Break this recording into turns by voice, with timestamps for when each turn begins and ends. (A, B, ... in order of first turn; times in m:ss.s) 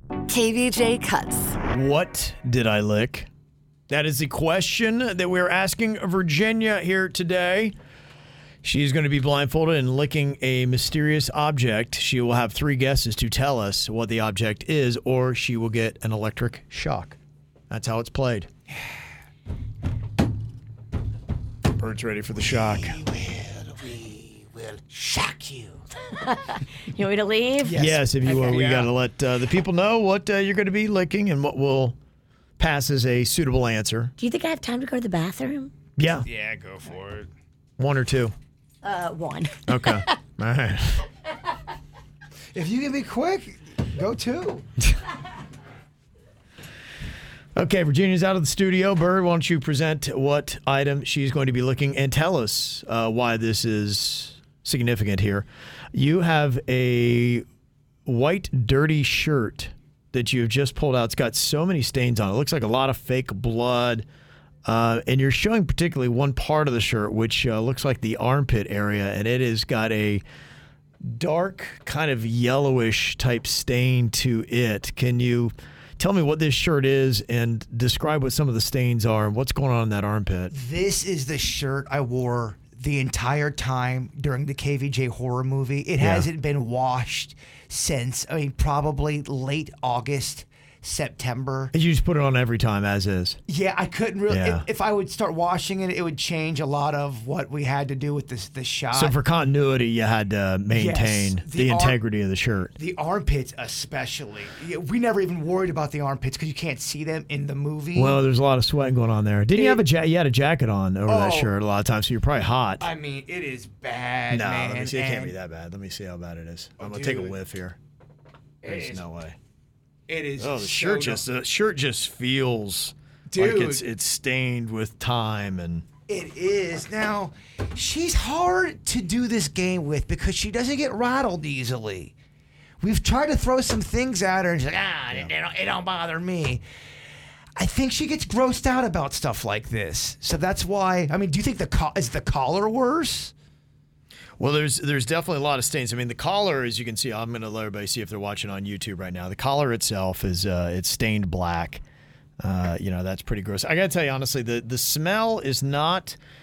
0:00.3-0:01.6 A
0:01.7-0:03.3 B
0:03.9-0:07.7 B
0:08.6-0:17.2 B
0:17.7-0:18.5 B
0:21.7-0:23.0 B
0:22.4-0:25.8 C
0:26.1-0:27.8 A
0:27.6-0:28.9 C
0:27.8-0:32.0 B
0:32.6-0:34.1 B
0:34.2-0:35.7 A
0:36.0-0:36.2 B
0:36.2-0:37.3 C
0:37.8-0:38.3 B
0:38.8-0:40.1 A
0:39.7-0:41.0 B
0:42.5-0:44.6 C
0:47.6-0:57.4 B
0:58.0-1:04.0 B
1:04.6-1:10.2 B
1:11.0-1:20.5 B
1:20.5-1:31.7 C
1:26.0-1:26.3 B
1:31.7-1:33.4 B
1:33.5-1:39.2 C
1:34.3-1:34.6 B
1:38.9-1:42.7 B
1:40.7-1:42.0 C
1:42.8-1:48.2 C
1:47.9-1:52.8 B
1:49.5-1:49.8 C
1:51.1-1:51.5 C
1:52.8-1:55.4 C
1:54.3-1:57.8 B
1:56.8-1:57.4 C
1:58.6-1:59.0 C
1:58.6-1:59.4 B
2:00.1-2:01.2 C
2:00.4-2:05.8 B
2:03.3-2:03.8 C
2:06.1-2:12.1 C
2:12.8-2:16.6 C
2:17.6-2:23.3 C
2:24.4-2:31.8 B
2:32.4-2:36.2 B